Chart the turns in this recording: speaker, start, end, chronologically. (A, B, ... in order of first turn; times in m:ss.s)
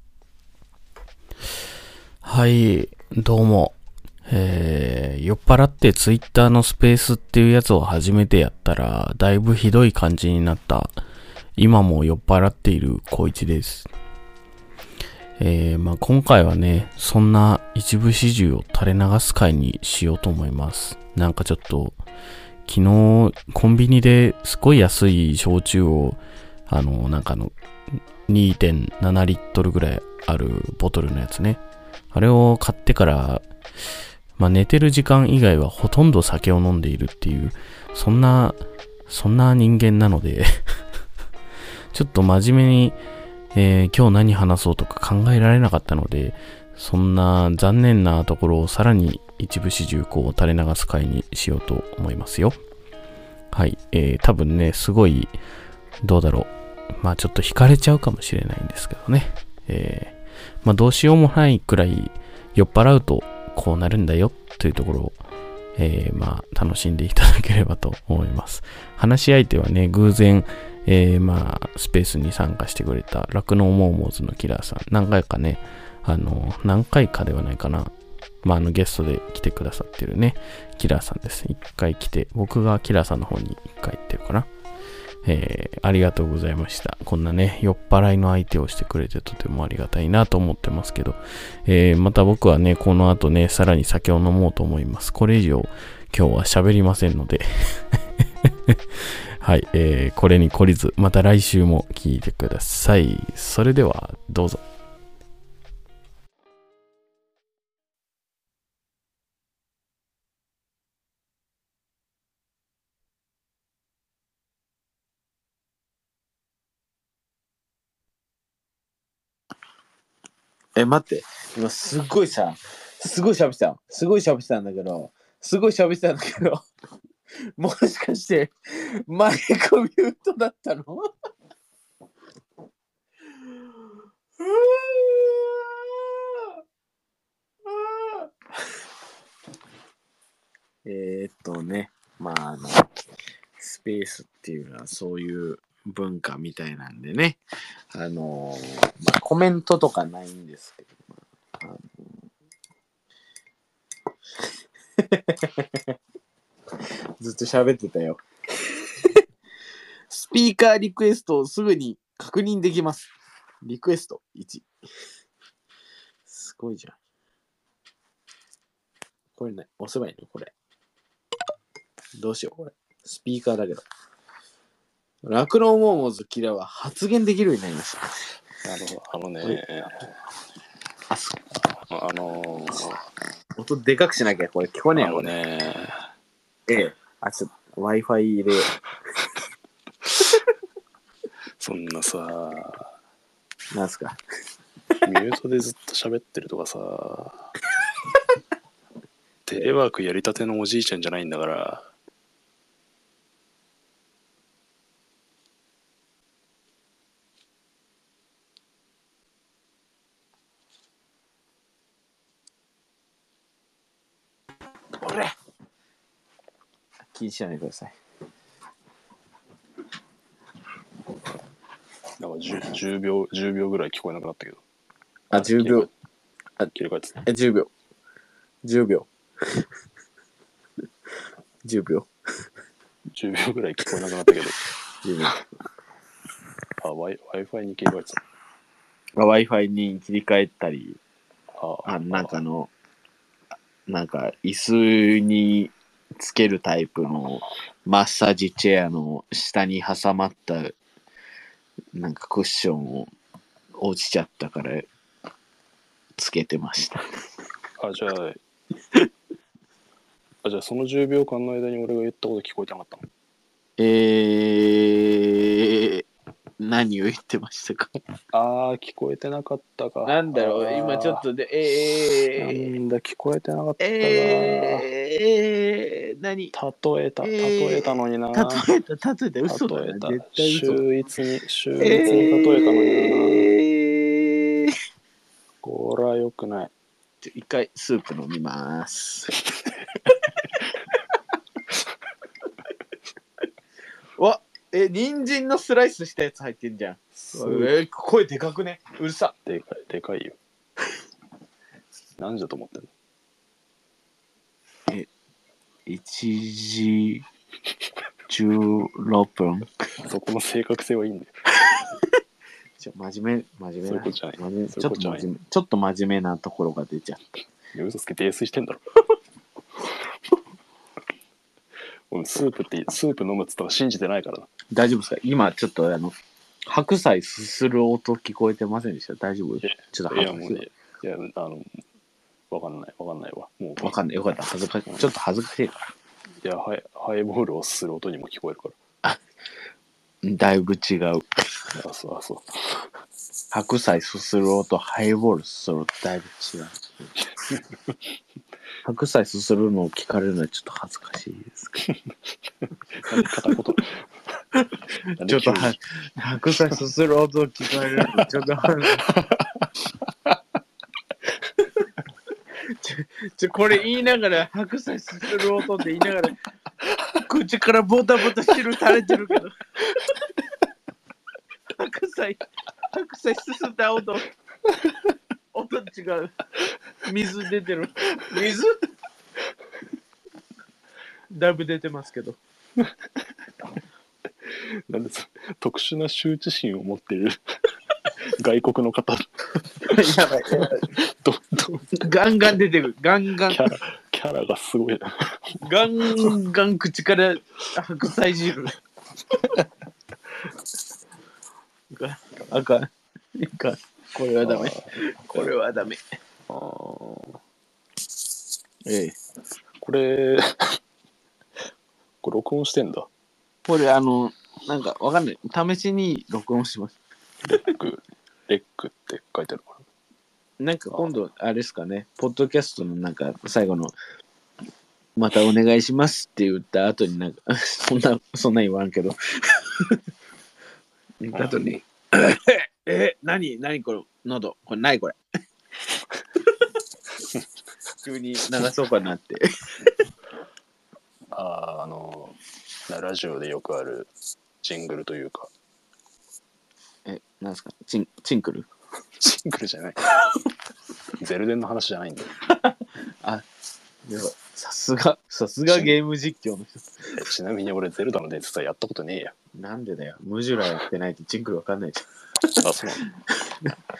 0:02.2-0:03.8 A
0:04.3-0:11.0 A
0:11.6-0:13.9 A
0:15.4-0:22.0 A
0:22.7-0:27.5 A
0:28.3-0:31.6 A
0:32.1-0:33.5 A
0:34.4-0:40.6 A
0:41.9-0:43.0 A
0:43.5-0:52.6 A
0:53.5-0:55.4 A
0:56.0-1:05.2 A
1:05.8-1:17.9 A
1:18.4-1:24.5 A
1:25.2-1:37.8 A
1:39.4-1:44.6 A
2:00.8-2:06.6 B
2:07.6-2:11.1 B
2:13.4-2:16.6 B
2:17.6-2:18.7 B
2:20.8-2:22.9 B
2:23.6-2:27.4 B
2:27.9-2:32.3 B
2:35.0-2:36.0 B
2:37.2-2:39.2 B
2:40.1-2:43.1 B
2:43.6-2:44.7 B
2:46.3-2:47.0 B
2:49.4-2:50.5 B
2:52.2-2:53.8 B
2:55.2-2:58.3 B
2:58.6-3:00.1 C
3:01.1-3:01.4 B
3:01.9-3:03.0 C
3:03.6-3:05.3 B
3:04.9-3:06.1 C
3:06.7-3:08.7 B
3:11.6-3:12.9 C
3:13.7-3:14.2 B
3:15.0-3:17.5 C
3:19.5-3:21.9 C
3:35.0-3:35.3 B
3:37.1-3:38.0 B
3:42.2-3:44.6 C
3:45.3-3:45.9 B
3:45.3-3:45.9 C
3:46.7-3:47.2 C
3:47.2-3:47.7 B
3:48.6-3:49.6 B
3:51.6-3:52.1 B
3:53.1-3:54.7 C
3:55.0-3:55.4 B
3:56.8-3:58.2 C
3:59.2-4:01.0 B
4:01.6-4:02.4 C
4:01.9-4:02.7 B
4:03.9-4:10.8 B
4:11.9-4:13.1 B
4:13.8-4:14.9 B
4:16.2-4:17.0 B
4:17.8-4:18.4 C
4:20.4-4:23.1 C
4:23.8-4:26.0 B
4:26.6-4:27.9 B
4:28.3-4:31.2 C
4:30.0-4:32.8 B
4:32.4-4:34.9 C
4:33.8-4:36.5 B
4:36.5-4:38.7 C
4:37.2-4:40.8 B
4:39.5-4:43.5 C
4:41.8-4:44.8 B
4:45.6-4:46.7 C
4:47.2-4:49.4 B
4:54.2-4:59.3 B
4:57.2-4:57.8 C
4:59.5-5:00.4 C
5:02.2-5:02.9 C
5:05.9-5:07.2 B
5:08.3-5:09.7 B
5:10.0-5:11.3 C
5:12.8-5:17.2 B
5:13.8-5:15.3 C
5:17.7-5:18.8 C
5:22.1-5:24.5 C
5:24.7-5:30.7 B
5:29.6-5:31.8 C
5:32.5-5:34.0 C
5:33.8-5:35.9 B
5:36.4-5:38.8 C
5:40.2-5:41.3 B
5:41.7-5:42.9 C
5:43.5-5:46.8 B
5:47.4-5:47.9 C
5:48.8-5:51.7 B
5:52.9-5:54.1 C
5:53.1-5:53.4 B
5:55.0-5:55.8 C
5:55.2-5:59.1 B
6:02.6-6:06.4 B
6:07.1-6:09.5 B
6:11.7-6:14.3 B
6:15.5-6:16.3 B
6:17.0-6:18.8 B
6:21.3-6:22.4 B
6:24.4-6:27.4 C
6:28.4-6:29.3 C
6:29.8-6:30.9 B
6:30.5-6:32.0 C
6:32.0-6:33.7 B
6:33.5-6:36.3 C
6:35.6-6:38.8 B
6:41.9-6:46.0 B
6:44.4-6:45.6 C
6:46.5-6:47.4 C
6:48.8-6:49.2 B
6:49.8-6:50.8 C
6:52.2-6:53.1 C
6:53.7-6:57.0 B
6:57.4-6:59.9 C
7:00.6-7:04.0 B
7:05.2-7:10.0 B
7:11.2-7:15.2 B
7:11.3-7:11.8 C
7:18.0-7:20.0 B
7:21.3-7:25.5 C
7:27.0-7:28.7 B
7:29.2-7:30.2 C
7:31.2-7:32.4 C
7:32.5-7:33.5 B
7:34.0-7:37.1 B
7:37.1-7:39.3 C
7:39.5-7:42.6 B
7:42.6-7:43.1 C
7:43.4-7:43.7 B